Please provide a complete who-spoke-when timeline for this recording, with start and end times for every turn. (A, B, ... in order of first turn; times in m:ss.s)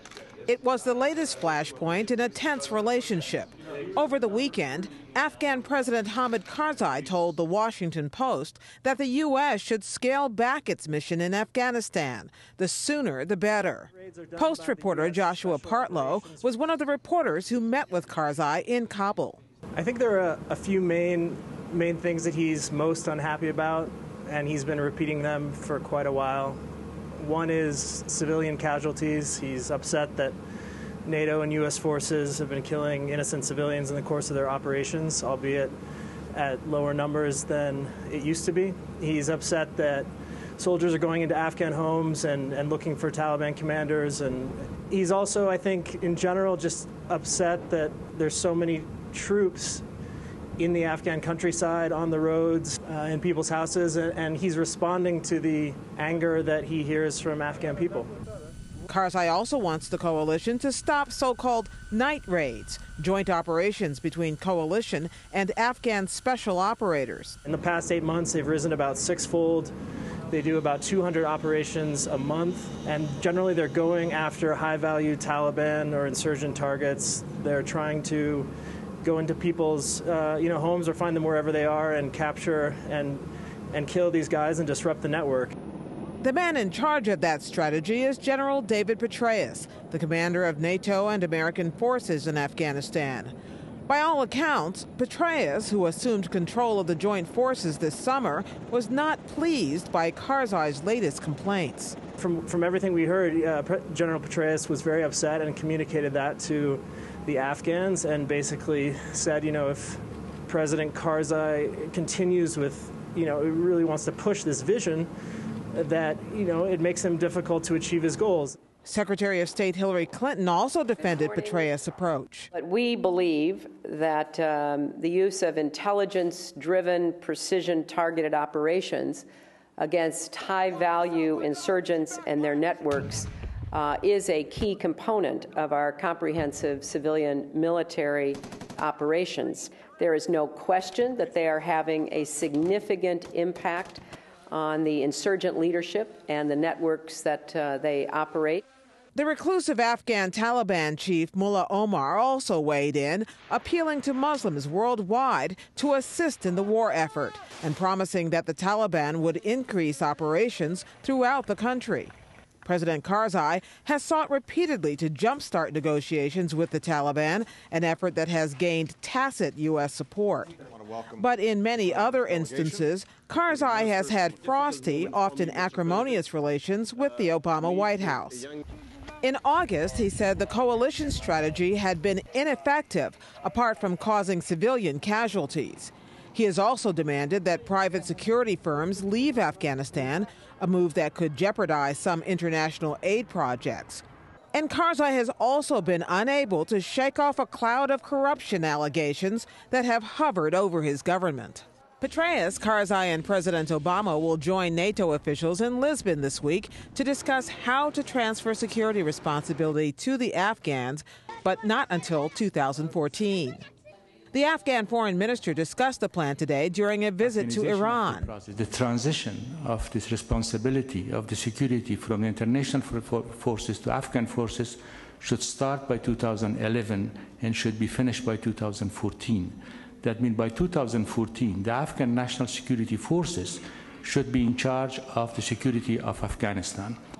0:00.4-0:19.4 A
0:13.9-0:16.6 B
0:19.7-0:26.6 B
0:27.2-0:30.3 B
0:31.0-0:35.7 B
0:36.3-0:49.8 B
0:50.6-0:58.1 B
0:58.9-1:07.4 A
1:07.4-1:09.7 B
1:10.3-1:18.5 B
1:19.0-1:25.5 B
1:26.2-1:33.3 A
1:33.9-1:42.0 A
1:42.2-1:55.1 B
1:55.7-1:58.6 B
1:58.8-2:02.5 A
2:01.0-2:01.7 C
2:02.5-2:09.2 C
2:09.8-2:28.6 C
2:29.1-2:42.1 A
2:42.6-2:50.5 A
2:51.1-2:58.4 A
2:59.2-3:33.6 A
3:34.3-3:38.3 A
3:37.2-3:57.0 D